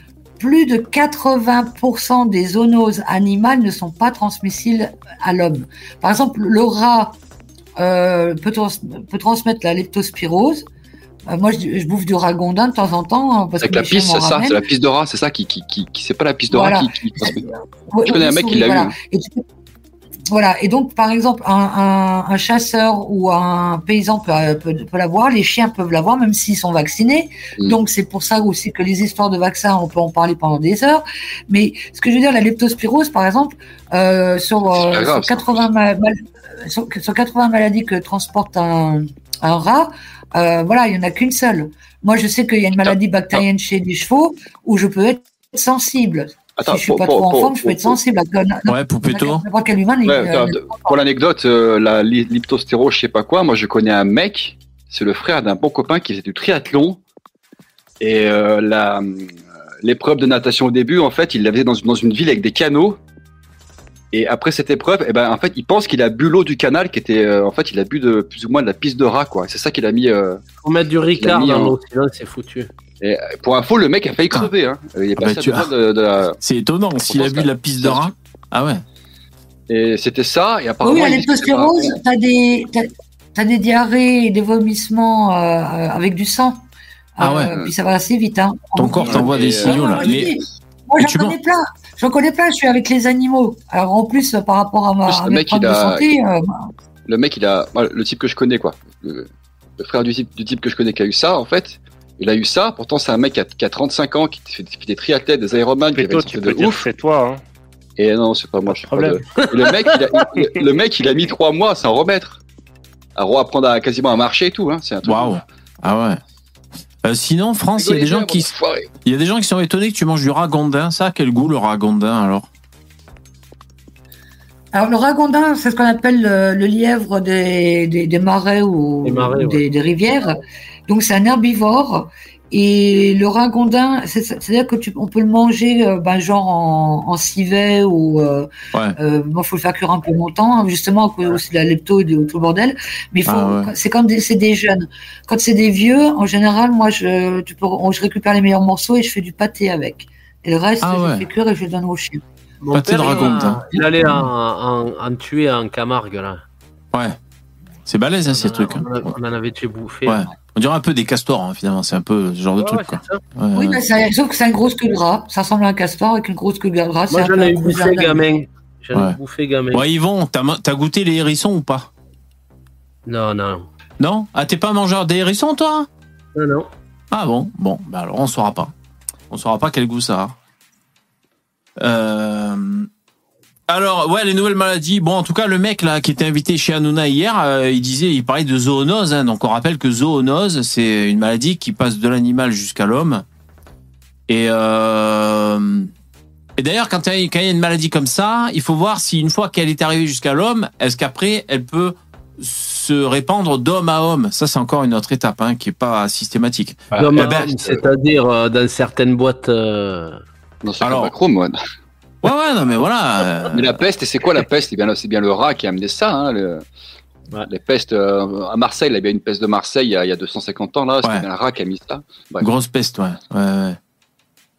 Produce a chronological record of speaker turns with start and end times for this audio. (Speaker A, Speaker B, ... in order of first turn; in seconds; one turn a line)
Speaker A: 0.4-7.2
Speaker A: 7.8-10.7
Speaker A: 11.3-14.6
Speaker B: 13.6-17.4
Speaker A: 16.5-19.4
Speaker B: 18.1-18.9
Speaker A: 20.3-50.9
Speaker B: 34.7-35.7
Speaker B: 46.6-48.0
Speaker C: 48.7-49.4
Speaker B: 50.0-57.0
Speaker B: 58.0-63.0
Speaker B: 64.1-70.4
Speaker D: 70.6-72.7
Speaker B: 71.1-71.8
Speaker B: 73.0-76.4
Speaker C: 75.2-75.7
Speaker C: 76.4-78.8
Speaker B: 77.1-78.1
Speaker B: 79.7-81.9
Speaker A: 80.8-86.6
Speaker A: 87.2-96.7
Speaker C: 87.2-87.5
Speaker C: 88.8-90.3
Speaker B: 89.0-90.3
Speaker C: 91.0-91.3
Speaker B: 95.1-96.1
Speaker B: 97.1-106.8
Speaker E: 105.9-107.4
Speaker B: 108.0-112.4
Speaker E: 108.7-109.3
Speaker B: 113.2-115.4
Speaker C: 115.0-116.2
Speaker C: 117.0-122.5
Speaker B: 117.8-118.9
Speaker A: 124.7-152.2
Speaker D: 129.0-129.7
Speaker C: 143.3-143.7
Speaker C: 150.8-151.2
Speaker D: 152.6-156.4
Speaker C: 152.7-154.3
Speaker A: 153.0-153.5
Speaker C: 157.9-159.2
Speaker D: 158.3-160.2
Speaker C: 160.1-163.8
Speaker D: 162.6-163.2
Speaker A: 163.5-168.3
Speaker D: 167.1-169.9
Speaker C: 169.7-171.9
Speaker D: 173.1-173.7
Speaker C: 174.0-175.9
Speaker D: 176.3-176.7
Speaker C: 177.1-178.7
Speaker C: 179.3-180.3
Speaker C: 181.8-182.9
Speaker C: 183.7-193.2
Speaker C: 194.3-195.9
Speaker C: 196.6-207.8
Speaker D: 207.0-210.2
Speaker B: 210.6-211.6
Speaker C: 210.8-211.1
Speaker C: 212.2-213.8
Speaker B: 213.5-216.6
Speaker B: 217.4-222.5
Speaker C: 222.4-223.8